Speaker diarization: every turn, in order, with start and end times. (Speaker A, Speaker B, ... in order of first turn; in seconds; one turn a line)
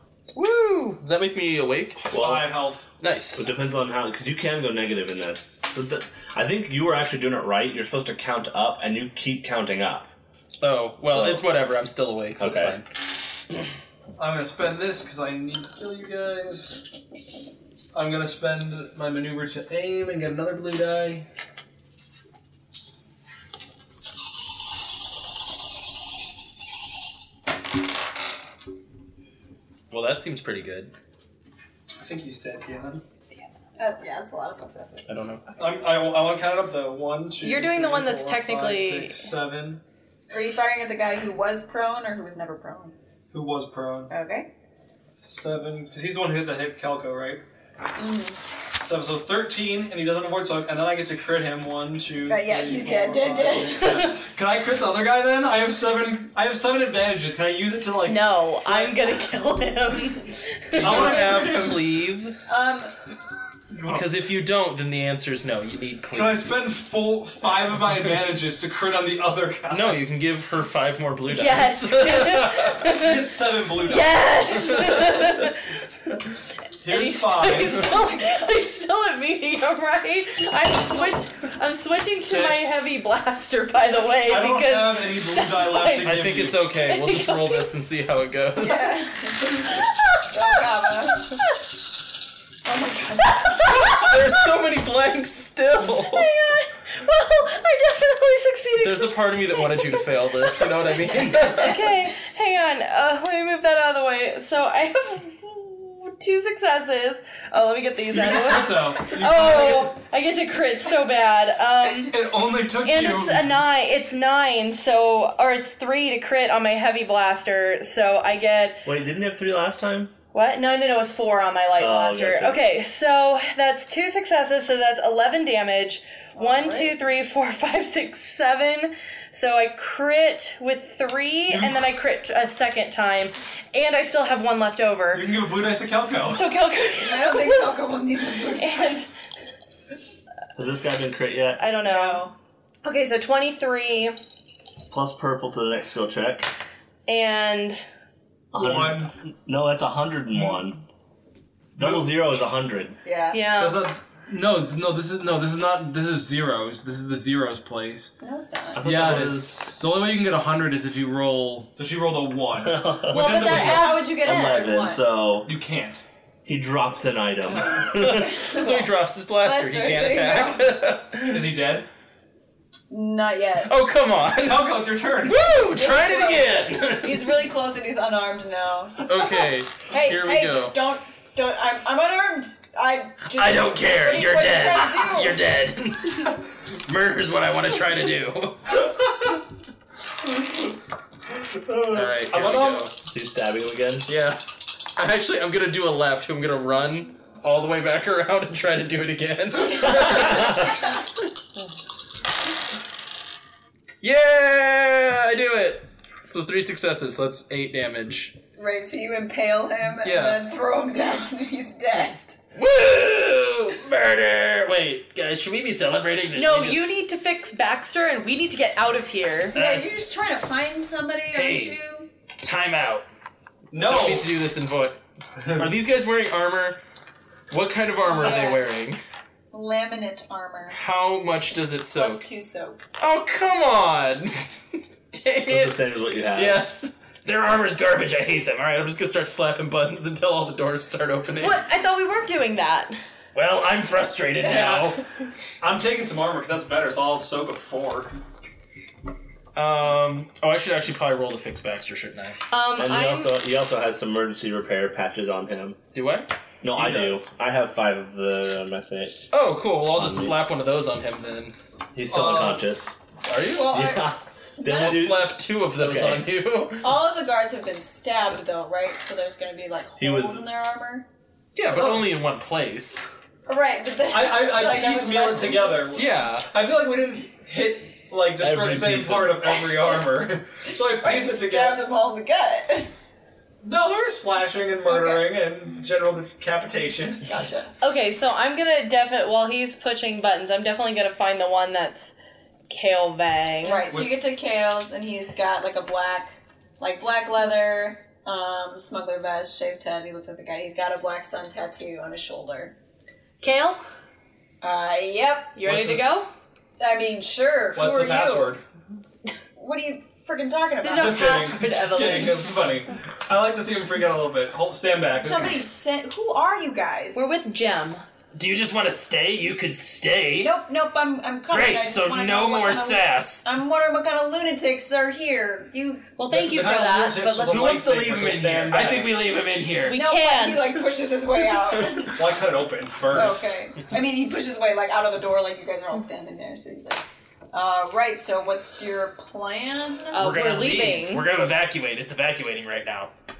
Speaker A: 0.3-2.1
Speaker B: 2.1-2.5
Speaker C: 2.1-2.9
Speaker A: 3.0-3.5
Speaker B: 3.3-10.1
Speaker A: 10.6-12.8
Speaker B: 11.0-11.4
Speaker B: 12.4-12.8
Speaker C: 14.2-16.9
Speaker C: 17.9-21.2
Speaker A: 29.9-30.9
Speaker C: 32.0-33.0
Speaker D: 33.8-35.1
Speaker A: 35.1-35.4
Speaker C: 35.6-39.8
Speaker E: 37.4-39.3
Speaker D: 40.3-42.9
Speaker C: 43.3-44.1
Speaker D: 44.1-44.5
Speaker C: 45.2-47.4
Speaker D: 48.0-48.4
Speaker C: 48.8-59.0
Speaker D: 52.2-54.0
Speaker E: 58.0-61.3
Speaker A: 60.7-62.4
Speaker C: 60.8-61.8
Speaker D: 62.5-63.0
Speaker C: 63.7-64.0
Speaker A: 63.9-66.5
Speaker C: 66.1-70.0
Speaker A: 69.7-72.9
Speaker E: 71.3-73.2
Speaker C: 72.9-74.4
Speaker E: 73.8-75.8
Speaker A: 74.8-75.1
Speaker C: 76.8-77.9
Speaker E: 76.8-86.2
Speaker C: 82.1-82.8
Speaker C: 84.2-86.6
Speaker A: 86.0-88.9
Speaker E: 86.8-87.7
Speaker D: 88.5-91.4
Speaker E: 89.7-90.2
Speaker D: 92.6-94.1
Speaker E: 93.3-94.3
Speaker A: 93.7-96.3
Speaker E: 95.8-112.2
Speaker A: 98.8-101.8
Speaker C: 108.1-110.0
Speaker C: 112.1-113.6
Speaker E: 112.8-118.8
Speaker B: 118.8-120.1
Speaker E: 120.3-135.3
Speaker B: 121.8-122.6
Speaker D: 126.3-126.9
Speaker C: 131.5-131.8
Speaker C: 135.1-136.5
Speaker E: 136.3-137.8
Speaker D: 137.0-138.9
Speaker E: 138.5-139.1
Speaker B: 140.5-141.6
Speaker E: 141.6-142.3
Speaker D: 141.8-142.3
Speaker E: 142.8-144.2
Speaker B: 144.9-146.5
Speaker E: 147.1-147.8
Speaker B: 148.5-150.8
Speaker C: 148.5-149.1
Speaker C: 151.8-152.1
Speaker B: 151.8-153.0
Speaker D: 153.0-153.4
Speaker E: 153.3-153.9
Speaker C: 153.6-158.1
Speaker D: 158.2-158.9
Speaker B: 158.7-159.8
Speaker C: 158.8-163.8
Speaker A: 161.0-161.7
Speaker B: 162.6-165.5
Speaker E: 163.1-164.5
Speaker D: 163.1-165.0
Speaker C: 165.4-166.0
Speaker B: 166.4-168.4
Speaker D: 167.6-168.9
Speaker A: 168.0-171.5
Speaker D: 169.4-170.7
Speaker C: 171.3-171.9
Speaker D: 172.9-173.7
Speaker A: 173.6-177.5
Speaker C: 174.4-175.5
Speaker D: 175.5-185.4
Speaker A: 179.0-180.7
Speaker A: 183.3-189.4
Speaker A: 191.9-192.9
Speaker C: 192.3-192.9
Speaker B: 193.0-194.1
Speaker A: 194.1-194.4
Speaker A: 194.9-201.1
Speaker A: 204.0-208.3
Speaker D: 208.6-212.4
Speaker A: 210.0-210.4
Speaker A: 212.5-216.9
Speaker E: 216.3-219.6
Speaker A: 219.5-220.1
Speaker D: 219.5-222.1
Speaker A: 221.3-221.8
Speaker A: 222.4-223.1
Speaker C: 223.7-224.3
Speaker A: 223.7-225.0
Speaker C: 225.4-225.7
Speaker A: 225.5-226.8
Speaker A: 227.5-229.0
Speaker D: 228.1-228.9
Speaker E: 228.2-228.5
Speaker D: 229.5-230.8
Speaker A: 230.7-232.2
Speaker D: 231.9-232.8
Speaker A: 233.0-234.5
Speaker A: 235.1-235.8
Speaker B: 235.5-236.6
Speaker A: 236.3-241.6
Speaker E: 241.4-243.0
Speaker A: 243.3-245.0
Speaker C: 244.4-245.0
Speaker C: 245.6-248.1
Speaker A: 249.5-252.4
Speaker E: 252.5-253.3
Speaker B: 252.8-255.8
Speaker A: 255.9-256.3
Speaker B: 256.6-259.3
Speaker C: 256.8-257.2
Speaker A: 259.3-261.5
Speaker B: 259.9-260.3
Speaker B: 261.9-263.0
Speaker C: 262.1-262.6
Speaker A: 263.2-263.8
Speaker D: 263.4-265.1
Speaker B: 263.7-266.3
Speaker A: 264.7-266.9
Speaker D: 266.8-271.1
Speaker B: 270.0-270.4
Speaker A: 271.5-273.1
Speaker D: 273.4-276.0
Speaker C: 274.1-281.8
Speaker A: 275.9-276.5
Speaker B: 278.4-279.5
Speaker D: 280.9-282.9
Speaker C: 283.6-287.3
Speaker D: 284.9-285.3
Speaker D: 287.3-287.7
Speaker E: 287.8-292.1
Speaker E: 292.7-293.8
Speaker D: 293.6-302.7
Speaker C: 293.9-294.2
Speaker E: 303.4-303.8
Speaker D: 304.6-305.6
Speaker E: 305.5-306.3
Speaker C: 305.7-306.0
Speaker D: 306.8-308.6
Speaker C: 307.7-308.6
Speaker D: 309.6-311.5
Speaker E: 310.8-312.4
Speaker C: 310.9-315.6
Speaker D: 315.1-317.3
Speaker E: 317.1-318.0
Speaker A: 318.3-320.5
Speaker D: 320.4-326.1
Speaker A: 321.5-323.4
Speaker E: 326.2-327.8
Speaker C: 326.3-329.2
Speaker A: 327.5-330.0
Speaker E: 329.8-330.8
Speaker D: 329.9-332.3
Speaker C: 332.1-333.5
Speaker D: 333.1-340.9
Speaker E: 340.1-341.2
Speaker A: 340.1-343.1